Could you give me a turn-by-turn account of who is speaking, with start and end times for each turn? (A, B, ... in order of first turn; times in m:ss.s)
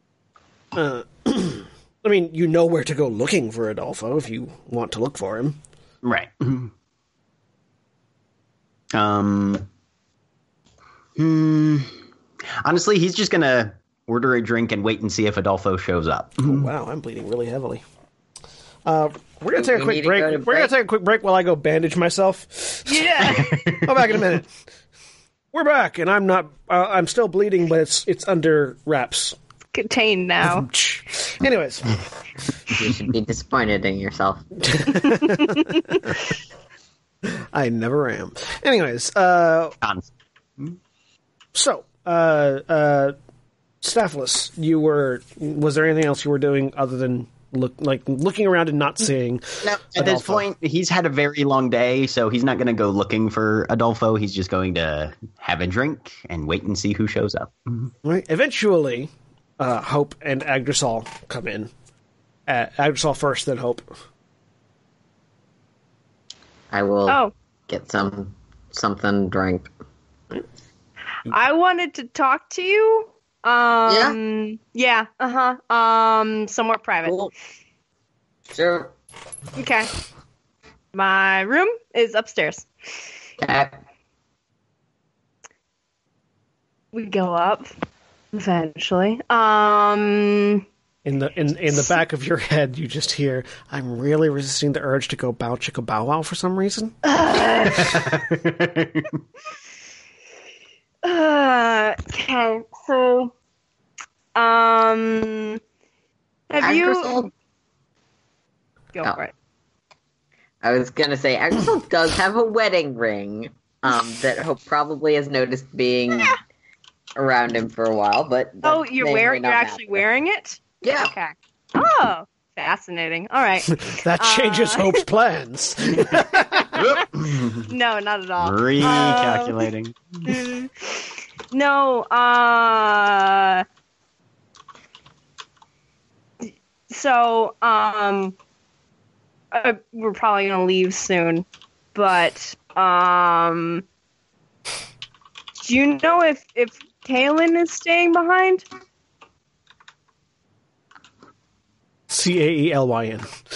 0:00.7-0:05.6 A
0:06.0-0:06.7 B
0:08.9-0:09.7 B
0:11.2-0:11.9 B
0:12.6-0:16.7 B
0:16.4-0:17.8 A
0:18.8-0:23.2 A
0:19.5-0:20.7 C
0:22.9-0:23.7 D
0:23.3-0:24.0 B
0:23.8-0:24.5 A
0:25.5-0:29.4 A
0:29.7-0:30.6 D
0:30.4-0:32.0 A
0:32.7-0:34.4 C
0:34.7-0:36.2 A
0:35.4-0:35.6 D
0:37.5-0:39.7 A
0:39.8-0:40.1 B
0:41.5-0:43.1 A
0:43.8-0:50.4 A
0:49.6-0:57.9 B
0:58.0-1:01.7 A
1:02.5-1:03.9 A
1:06.7-1:09.7 C
1:11.3-1:17.2 D
1:13.9-1:14.2 C
1:17.0-1:17.3 C
1:18.5-1:18.9 C
1:19.6-1:19.9 D
1:20.9-1:22.7 D
1:23.4-1:23.7 C
1:26.9-1:27.7 D
1:28.3-1:30.6 D
1:31.0-1:36.9 A
1:37.0-1:38.0 D
1:37.7-1:39.1 B
1:41.0-1:43.3 D
1:44.3-1:45.6 D
1:46.5-1:47.2 D
1:46.6-1:47.3 C
1:48.9-1:49.3 D
1:50.6-1:56.4 C
1:57.2-2:00.0 C
1:58.6-2:05.0 D
2:00.8-2:01.1 C
2:03.8-2:06.8 A
2:06.7-2:07.7 B
2:07.7-2:09.7 D
2:08.4-2:10.4 B
2:10.2-2:13.6 D
2:16.4-2:18.3 D
2:19.5-2:23.8 D
2:25.6-2:28.6 D
2:32.1-2:33.3 A